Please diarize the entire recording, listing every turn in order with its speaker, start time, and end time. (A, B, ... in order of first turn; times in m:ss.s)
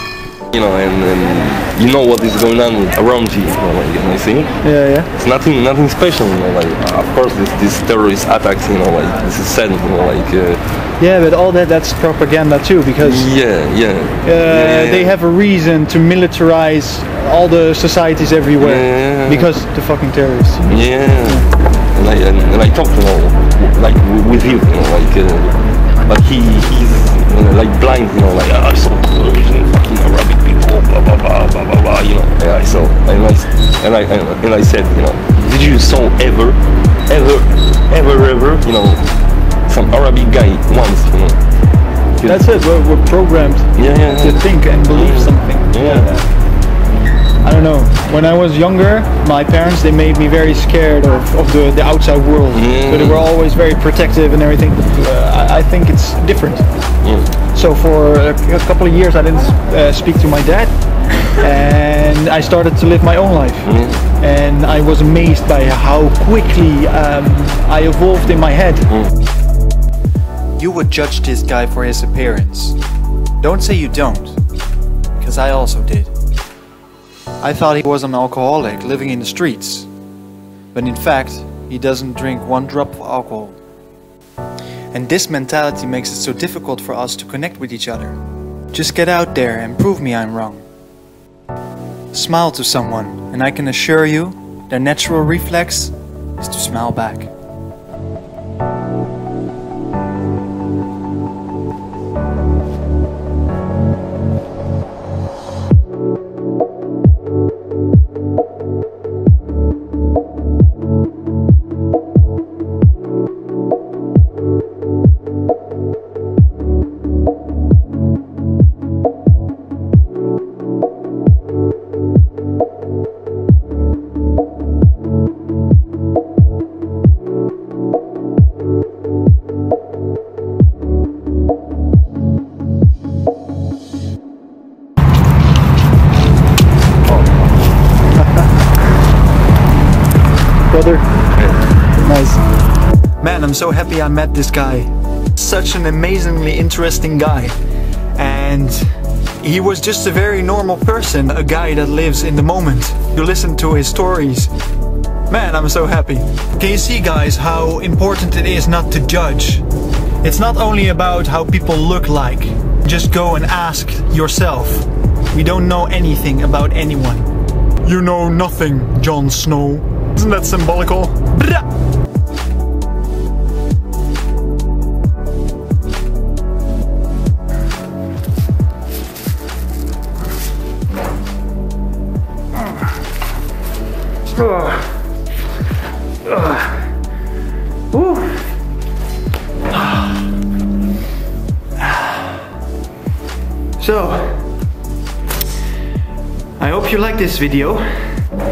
0:00.5-0:04.6 A
0:04.6-0:05.1 B
0:05.2-0:10.6 A
0:11.0-0:13.3 B
0:13.0-0:15.1 A
0:14.2-0:21.4 B
0:18.6-0:19.5 A
0:20.7-0:39.0 A
0:39.7-0:41.4 A
0:42.2-0:46.2 B
0:43.8-0:46.1 A
0:47.4-0:56.6 B
0:52.5-0:53.3 A
0:57.5-1:00.7 B
1:01.2-1:08.9 B
1:03.6-1:04.0 A
1:10.6-1:12.8 B
1:13.4-1:14.4 B
1:15.2-1:16.1 B
1:17.4-1:19.9 B
1:20.7-1:23.6 B
1:24.9-1:28.2 B
1:28.7-1:30.6 B
1:32.1-1:37.3 B
2:20.7-2:21.1 B
2:22.0-2:22.4 B
2:23.2-2:27.6 B
2:28.2-2:28.9 B
2:29.4-2:34.5 B
2:35.3-2:39.6 B
2:40.2-2:47.3 B
2:47.8-2:51.6 B
3:04.3-3:04.8 B
3:06.2-3:06.8 B
3:07.9-3:08.4 B
3:09.7-3:10.2 B
3:11.8-3:12.2 B
3:13.8-3:14.5 B
3:16.6-3:18.1 B